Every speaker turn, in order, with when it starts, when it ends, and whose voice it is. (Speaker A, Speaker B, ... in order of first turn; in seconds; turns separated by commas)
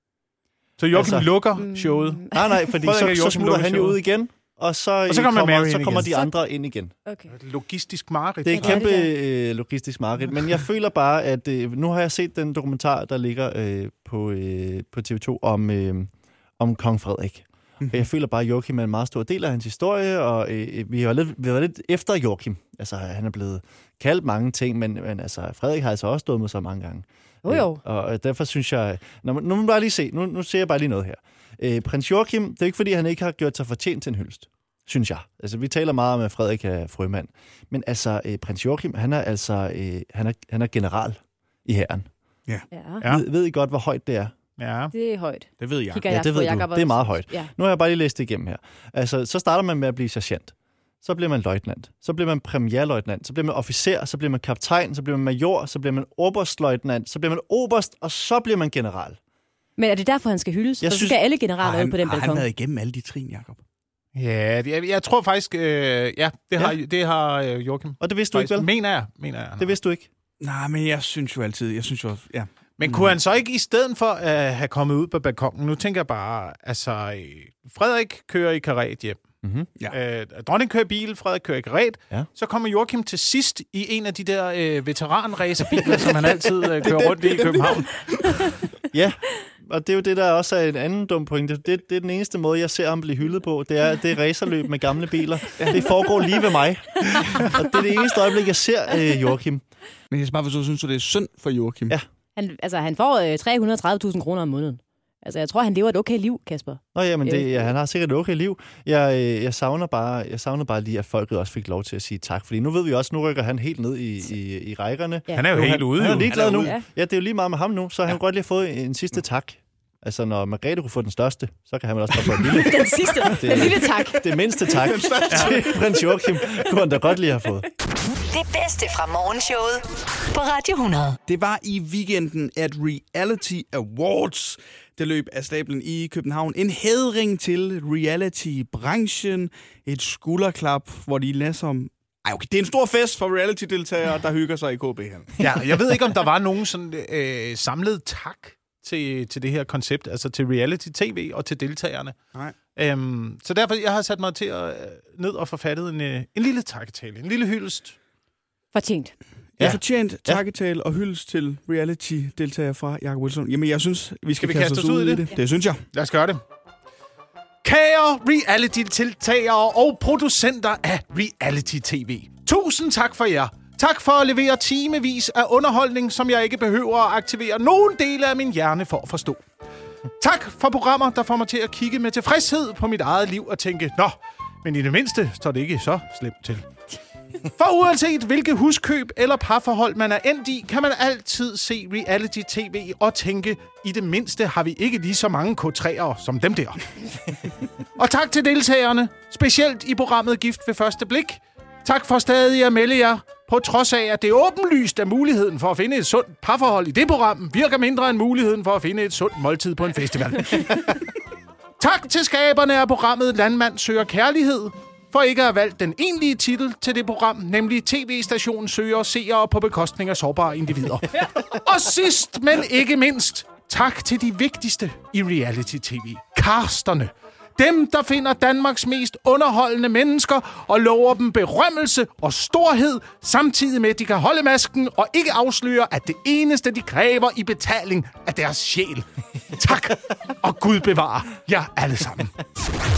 Speaker A: 0.8-4.0, Speaker B: 0.9-1.3, Speaker C: 1.6-2.6, Speaker B: 2.3-6.9, Speaker A: 5.1-6.1, Speaker C: 7.1-7.3, Speaker A: 7.3-8.8, Speaker B: 8.4-42.1, Speaker C: 8.5-9.1, Speaker C: 27.4-27.8, Speaker C: 42.7-43.0, Speaker B: 43.0-44.3, Speaker A: 44.6-44.9, Speaker C: 44.9-47.5, Speaker D: 45.6-46.0, Speaker B: 46.1-59.2, Speaker C: 59.8-62.5, Speaker B: 60.8-61.2, Speaker D: 61.6-63.6, Speaker A: 64.2-69.8, Speaker B: 68.0-68.7, Speaker B: 69.6-70.1, Speaker D: 70.4-73.0, Speaker A: 72.8-79.2, Speaker B: 79.4-79.7, Speaker A: 79.9-88.0, Speaker D: 86.7-88.5, Speaker B: 88.9-99.6, Speaker D: 95.6-95.9, Speaker D: 100.1-102.0, Speaker C: 102.4-107.5, Speaker B: 106.9-127.7, Speaker A: 115.3-116.4, Speaker D: 116.0-116.8, Speaker C: 122.5-124.9, Speaker D: 124.7-125.8, Speaker A: 125.3-125.6, Speaker E: 128.3-131.2, Speaker D: 131.3-145.4, Speaker A: 145.4-152.2, Speaker A: 152.8-158.0, Speaker C: 158.7-159.2, Speaker B: 159.6-160.4, Speaker D: 159.6-165.8, Speaker A: 164.4-165.3, Speaker A: 165.9-166.4, Speaker A: 167.6-179.4, Speaker A: 180.2-186.7, Speaker A: 187.4-196.9, Speaker A: 198.0-211.1, Speaker A: 211.8-242.4